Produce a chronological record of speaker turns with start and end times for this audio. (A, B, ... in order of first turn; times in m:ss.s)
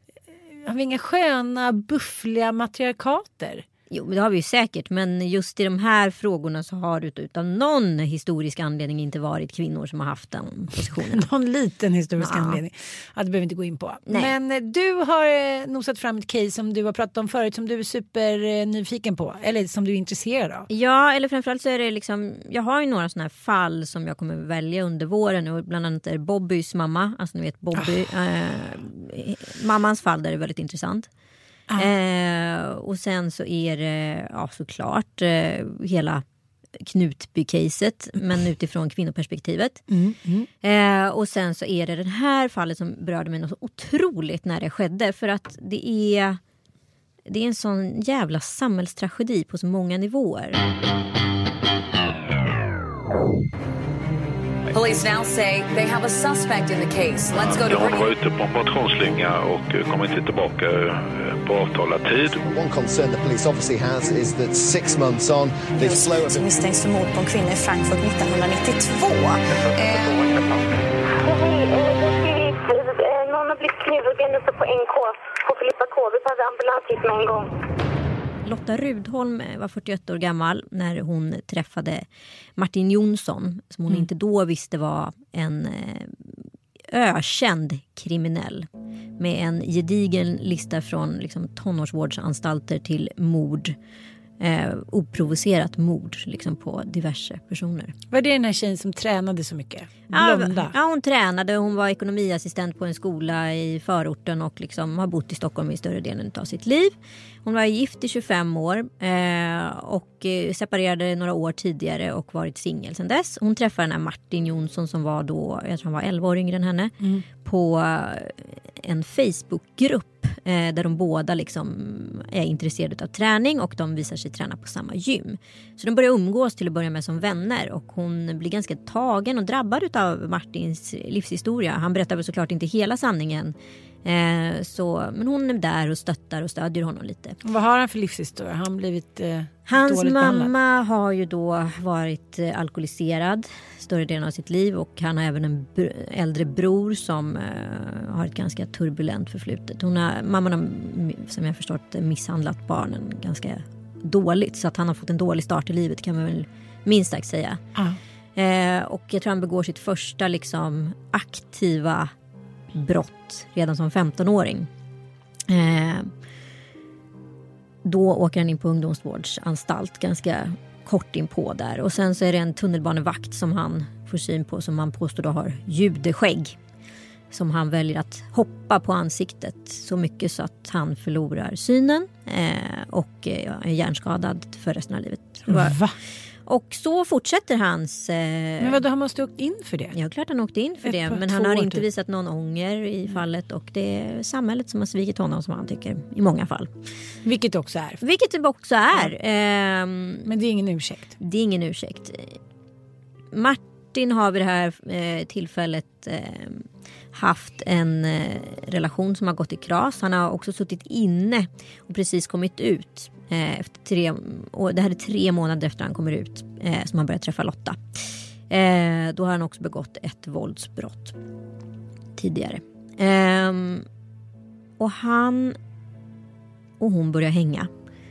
0:00.5-0:03.7 A
0:03.9-0:11.2 B
0:11.1-0:20.7 A
0:12.2-0:12.6 B
0:14.1-0:14.3 B
0:20.7-0:31.1 B
0:31.8-0:36.2 B
0:36.8-0:39.8 B
0:39.9-0:40.5 A
0:40.6-0:46.4 B
0:47.3-0:50.6 B
0:54.7-0:58.1 C
0:57.4-1:02.4 D
1:02.4-1:06.5 E
1:05.8-1:09.4 F
1:09.8-1:10.2 C
1:11.2-1:17.5 G
1:18.4-1:22.0 B
1:22.6-1:26.4 B
1:26.9-1:28.7 B
1:29.2-1:33.8 B
1:34.4-1:38.0 B
1:38.1-1:40.8 A
1:40.1-2:17.4 B
1:57.0-1:57.2 A
2:17.4-2:20.5 A
2:19.7-2:37.6 B
2:38.4-2:42.1 B
2:42.7-2:44.7 B
2:45.5-2:46.1 B
2:47.8-2:56.6 B
2:57.3-3:05.8 B
3:05.5-3:06.0 A
3:06.5-3:08.8 B
3:08.6-3:10.0 A
3:09.9-3:16.7 B
3:10.8-3:11.9 A
3:17.2-3:18.0 A
3:18.0-3:20.3 B
3:20.2-3:21.2 A
3:21.2-3:22.4 B
3:23.3-3:37.8 B
3:38.5-3:41.2 B
3:42.2-3:43.9 B
3:44.8-3:45.6 B
3:46.8-3:47.7 B